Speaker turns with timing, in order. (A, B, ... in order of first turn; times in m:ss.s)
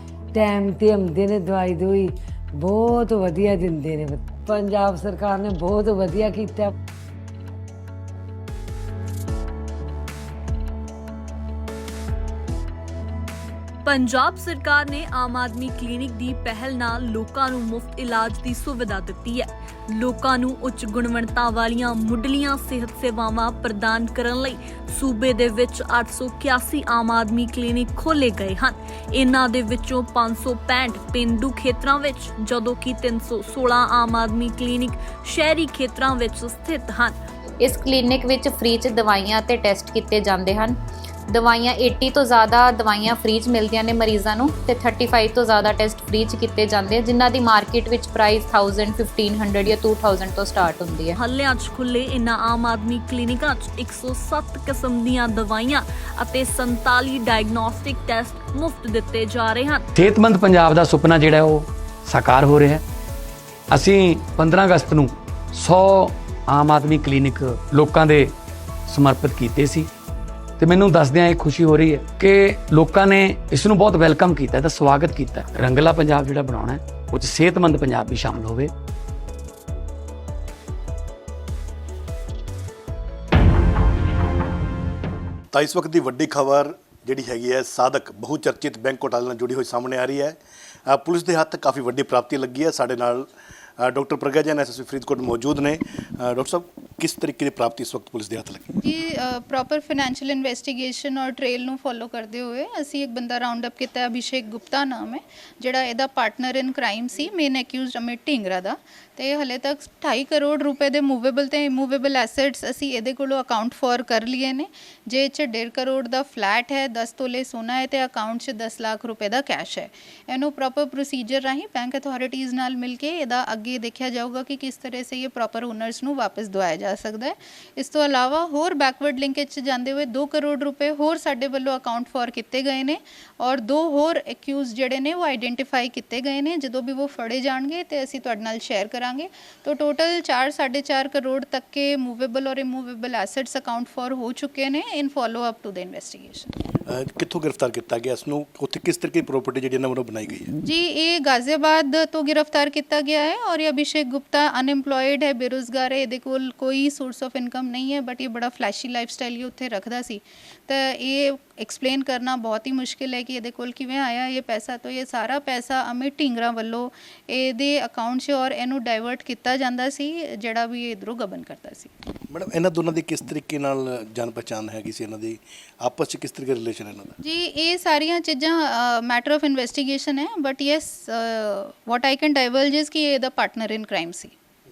0:00.3-0:06.7 A
0:13.8-0:37.2 B
0:37.6-0:40.8 C
0:41.3-0:51.2 C
0:51.2-0:59.9 B
0:59.9-1:02.8 D
1:03.7-1:08.3 D
1:08.9-1:09.9 D
1:10.6-1:18.7 D
1:25.5-1:33.3 E
1:33.8-1:38.8 E
1:38.8-2:26.5 F
2:26.9-2:30.5 E
2:30.6-2:51.9 F
2:52.3-2:57.1 E
2:57.2-3:04.3 F